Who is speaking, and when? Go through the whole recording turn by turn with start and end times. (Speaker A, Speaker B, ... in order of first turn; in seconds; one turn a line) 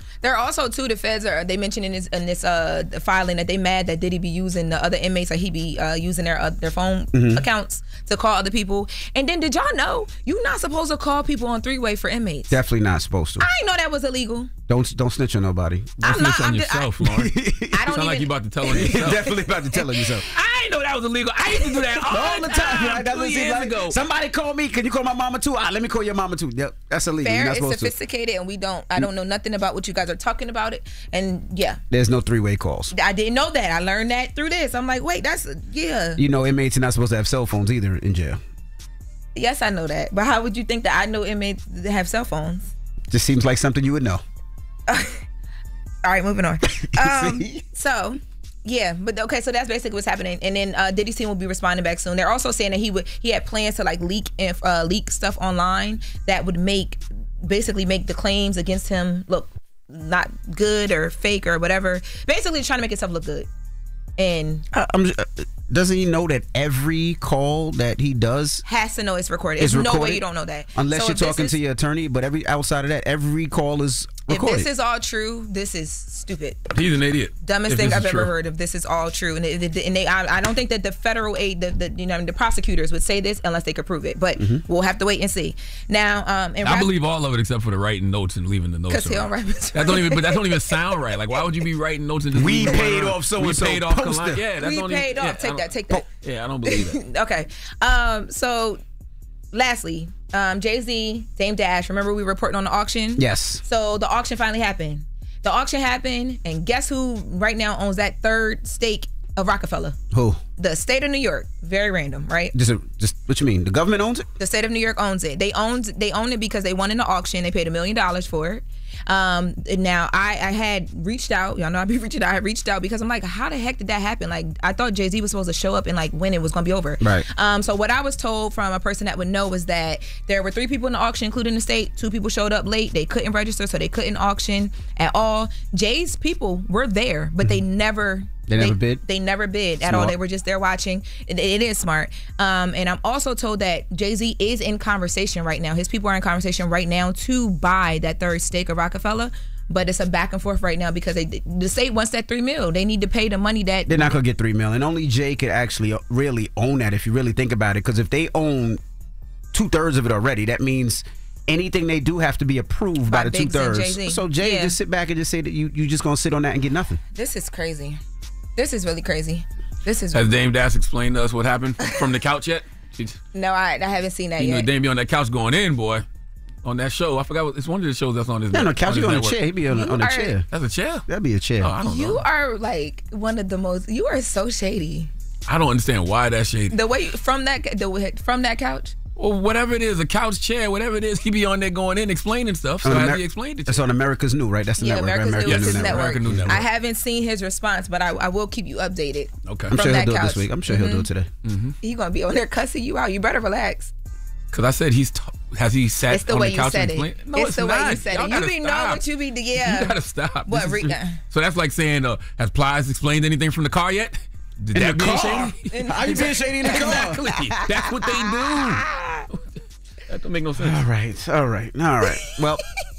Speaker A: 0.2-12.6
Speaker B: 7.1-7.4
Speaker B: 12.5-13.5
Speaker A: 13.4-14.5
Speaker B: 14.7-16.0
Speaker A: 16.0-16.9
Speaker C: 16.0-19.4
Speaker B: 17.0-17.9
Speaker A: 17.7-19.9
Speaker B: 18.7-20.2
Speaker C: 20.1-24.0
Speaker A: 21.5-22.0
Speaker B: 22.1-27.9
Speaker A: 27.2-31.8
Speaker B: 31.9-32.9
Speaker A: 32.9-36.2
Speaker B: 36.2-38.4
Speaker A: 39.3-42.7
Speaker B: 43.1-44.2
Speaker A: 44.9-45.2
Speaker A: 46.0-63.5
Speaker B: 46.8-47.6
Speaker A: 64.2-64.6
Speaker B: 64.7-68.6
Speaker A: 68.6-71.6
Speaker B: 69.6-74.7
Speaker A: 74.3-76.7
Speaker C: 76.7-78.3
Speaker A: 77.4-86.9
Speaker C: 86.6-97.0
Speaker A: 88.9-90.8
Speaker B: 92.3-94.4
Speaker A: 94.6-96.1
Speaker A: 96.7-98.8
Speaker A: 99.5-110.0
Speaker B: 103.2-103.6
Speaker B: 110.1-110.4
Speaker A: 110.6-112.5
Speaker B: 112.5-114.3
Speaker A: 114.4-154.2
Speaker B: 127.0-127.2
Speaker B: 138.5-139.0
Speaker B: 139.8-140.2
Speaker B: 153.9-158.8
Speaker B: 159.5-167.0
Speaker A: 163.1-164.8
Speaker A: 167.1-168.0
Speaker A: 168.6-170.3
Speaker C: 170.1-173.2
Speaker A: 173.3-174.7
Speaker C: 174.3-176.0
Speaker C: 176.6-179.4
Speaker B: 178.5-180.5
Speaker A: 179.7-180.3
Speaker C: 180.5-181.0
Speaker B: 181.1-181.7
Speaker C: 181.6-182.2
Speaker A: 181.8-185.1
Speaker C: 185.4-186.8
Speaker A: 186.7-188.9
Speaker C: 189.2-193.8
Speaker B: 192.8-196.6
Speaker A: 194.8-201.1
Speaker C: 195.4-196.6
Speaker C: 199.4-199.7
Speaker B: 199.7-201.3
Speaker C: 201.4-201.7
Speaker A: 201.8-203.9
Speaker C: 204.5-219.4
Speaker A: 206.1-211.2
Speaker B: 214.7-217.2
Speaker A: 215.7-219.3
Speaker C: 220.1-220.8
Speaker B: 220.6-222.6